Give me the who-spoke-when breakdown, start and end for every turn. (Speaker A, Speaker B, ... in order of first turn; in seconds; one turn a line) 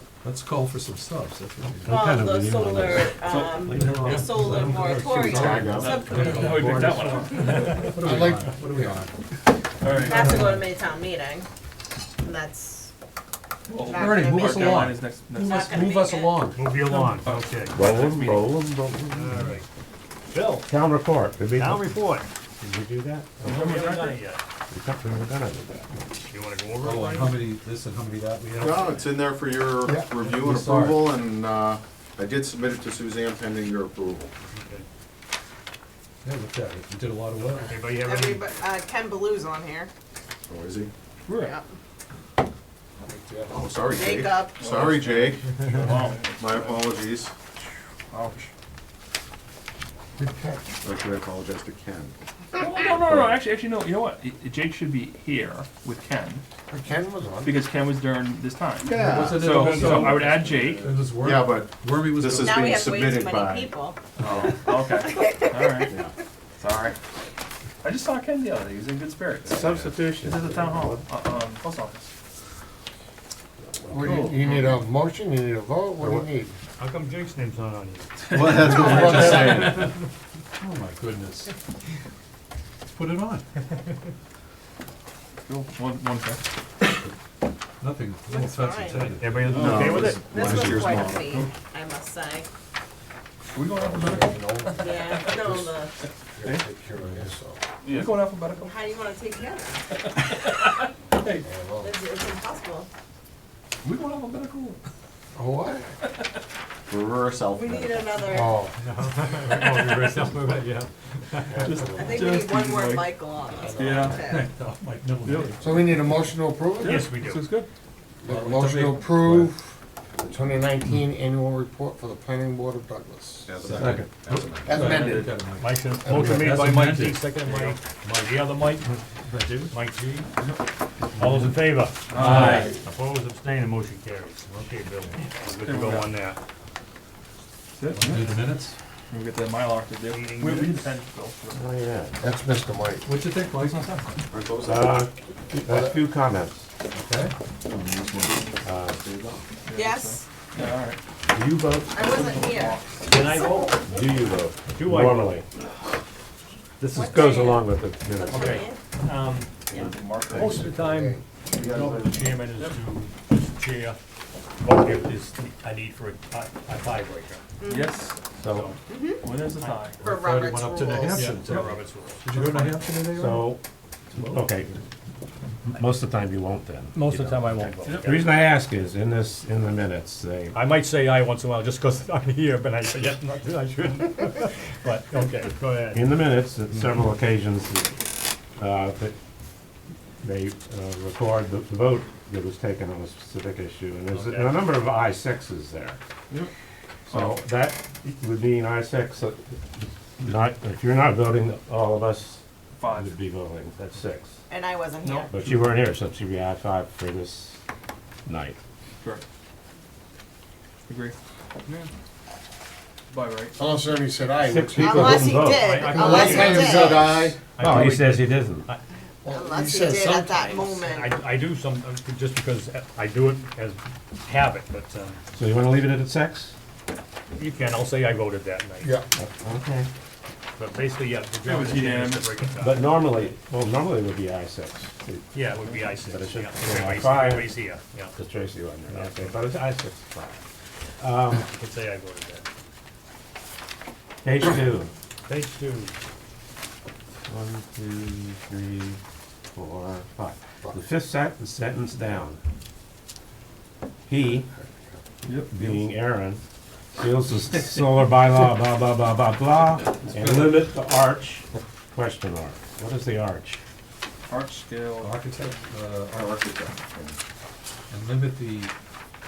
Speaker A: 0.2-2.0
Speaker B: 1.8-3.2
Speaker C: 1.9-7.5
Speaker D: 3.2-4.1
Speaker A: 3.6-9.1
Speaker E: 4.0-4.7
Speaker B: 5.2-6.0
Speaker F: 5.4-5.8
Speaker D: 5.5-7.9
Speaker F: 7.6-9.0
Speaker D: 9.8-10.4
Speaker C: 9.9-11.5
Speaker C: 12.2-12.9
Speaker D: 13.7-15.9
Speaker C: 13.8-14.8
Speaker A: 13.9-17.2
Speaker C: 15.4-16.5
Speaker E: 16.5-17.9
Speaker B: 17.7-19.4
Speaker D: 17.8-18.4
Speaker E: 19.1-19.6
Speaker E: 20.3-20.7
Speaker B: 20.7-21.9
Speaker E: 21.5-22.3
Speaker B: 22.6-23.8
Speaker D: 23.4-24.2
Speaker E: 23.4-24.4
Speaker B: 24.7-25.9
Speaker E: 26.3-27.5
Speaker A: 26.8-29.1
Speaker G: 28.5-34.3
Speaker A: 30.1-31.1
Speaker E: 34.5-34.9
Speaker A: 36.2-37.9
Speaker E: 37.7-38.4
Speaker C: 38.0-39.9
Speaker G: 40.5-40.9
Speaker D: 41.2-41.5
Speaker C: 41.4-41.7
Speaker F: 43.0-43.8
Speaker G: 43.5-47.3
Speaker C: 43.9-44.6
Speaker D: 44.6-46.8
Speaker D: 48.1-48.5
Speaker F: 50.2-50.8
Speaker G: 50.8-52.1
Speaker D: 52.5-56.4
Speaker G: 53.0-53.3
Speaker F: 56.7-57.7
Speaker D: 57.4-60.9
Speaker G: 58.8-59.9
Speaker A: 59.0-62.9
Speaker E: 59.6-60.0
Speaker G: 60.4-64.7
Speaker C: 62.4-64.1
Speaker D: 64.2-66.0
Speaker C: 65.1-65.9
Speaker D: 66.6-67.0
Speaker D: 67.8-72.1
Speaker B: 69.4-71.0
Speaker F: 73.9-76.5
Speaker D: 74.0-74.8
Speaker E: 76.8-78.1
Speaker G: 78.3-79.9
Speaker D: 78.3-79.3
Speaker A: 78.9-79.5
Speaker F: 78.9-79.7
Speaker A: 80.6-81.5
Speaker A: 82.8-83.4
Speaker D: 85.4-86.4
Speaker A: 87.8-89.9
Speaker C: 88.2-89.1
Speaker E: 88.9-90.2
Speaker G: 89.5-91.5
Speaker C: 90.2-92.5
Speaker D: 93.5-95.3
Speaker F: 93.8-95.7
Speaker C: 94.7-96.0
Speaker F: 96.3-97.6
Speaker D: 97.8-98.8
Speaker C: 98.6-100.0
Speaker D: 100.0-101.4
Speaker F: 101.4-101.9
Speaker C: 101.8-102.9
Speaker D: 103.8-104.8
Speaker F: 105.3-105.9
Speaker G: 106.9-108.2
Speaker C: 107.5-108.6
Speaker F: 108.3-108.7
Speaker E: 108.8-111.6
Speaker D: 109.5-110.0
Speaker B: 111.5-112.3
Speaker D: 111.6-113.1
Speaker C: 111.9-114.5
Speaker F: 113.7-114.0
Speaker D: 113.7-114.4
Speaker A: 114.2-115.7
Speaker E: 115.1-115.5
Speaker D: 115.2-115.6
Speaker F: 115.6-117.1
Speaker D: 116.8-117.7
Speaker E: 116.8-117.4
Speaker F: 118.2-123.5
Speaker A: 118.2-119.5
Speaker G: 123.5-125.3
Speaker A: 123.6-127.3
Speaker B: 123.8-124.1
Speaker F: 124.7-125.3
Speaker D: 124.8-125.2
Speaker E: 125.6-130.3
Speaker F: 126.0-126.3
Speaker D: 127.4-127.8
Speaker A: 129.3-129.7
Speaker E: 131.1-136.4
Speaker D: 132.1-132.8
Speaker A: 132.2-132.7
Speaker D: 135.6-136.1
Speaker D: 137.7-138.3
Speaker A: 137.9-138.7
Speaker E: 138.0-138.3
Speaker D: 139.1-141.6
Speaker E: 140.1-140.9
Speaker B: 141.5-142.2
Speaker F: 142.2-143.1
Speaker A: 143.0-144.2
Speaker D: 143.6-144.0
Speaker G: 144.3-145.0
Speaker B: 144.6-146.7
Speaker F: 145.7-146.0
Speaker A: 146.9-147.3
Speaker G: 147.7-149.4
Speaker B: 148.6-149.0
Speaker D: 149.7-151.0
Speaker C: 149.7-150.2
Speaker B: 151.3-152.1
Speaker C: 151.9-153.9
Speaker D: 152.1-153.1
Speaker E: 153.1-153.8
Speaker B: 153.7-155.4
Speaker E: 154.7-155.4
Speaker B: 156.8-158.7
Speaker C: 156.9-158.8
Speaker E: 159.0-159.5
Speaker G: 159.7-160.6
Speaker E: 160.3-164.0
Speaker F: 160.3-161.2
Speaker G: 161.5-162.3
Speaker E: 164.6-167.4
Speaker C: 167.6-167.9
Speaker D: 167.7-168.2
Speaker B: 168.4-168.7
Speaker E: 168.5-168.8
Speaker C: 168.9-169.2
Speaker D: 169.2-170.0
Speaker E: 169.6-169.9
Speaker C: 170.0-171.3
Speaker A: 170.0-173.5
Speaker E: 171.1-172.8
Speaker B: 173.1-173.6
Speaker A: 174.1-174.4
Speaker B: 174.2-174.8
Speaker B: 175.6-180.6
Speaker E: 176.9-178.4
Speaker E: 180.5-186.1
Speaker B: 185.9-188.0
Speaker B: 188.6-189.1
Speaker B: 190.2-196.0
Speaker E: 194.1-194.6
Speaker D: 197.1-197.4
Speaker B: 197.1-204.3
Speaker D: 202.8-203.1
Speaker C: 204.5-205.5
Speaker D: 205.0-205.3
Speaker B: 205.3-207.6
Speaker B: 208.2-208.6
Speaker D: 210.9-211.2
Speaker D: 213.1-213.6
Speaker F: 213.6-217.4
Speaker B: 214.4-216.5
Speaker C: 214.8-217.1
Speaker E: 215.6-218.8
Speaker B: 217.6-218.7
Speaker F: 219.2-220.7
Speaker C: 219.3-221.2
Speaker E: 220.4-225.2
Speaker B: 225.3-226.5
Speaker E: 227.3-229.0
Speaker F: 228.8-229.1
Speaker B: 229.2-229.9
Speaker E: 230.6-233.0
Speaker D: 231.4-232.4
Speaker B: 232.6-235.2
Speaker E: 235.3-238.2
Speaker B: 235.9-237.6
Speaker B: 238.2-240.4
Speaker E: 238.9-239.3
Speaker B: 241.0-241.5
Speaker E: 241.4-242.4
Speaker B: 244.2-244.9
Speaker E: 245.2-245.9
Speaker B: 247.3-249.0
Speaker B: 249.5-252.4
Speaker B: 254.1-254.5
Speaker F: 254.3-255.0
Speaker D: 255.2-255.5
Speaker B: 255.3-256.4
Speaker B: 256.9-263.6
Speaker A: 260.0-260.7
Speaker D: 264.3-265.1
Speaker A: 265.0-266.4
Speaker G: 266.1-267.2
Speaker A: 267.9-268.7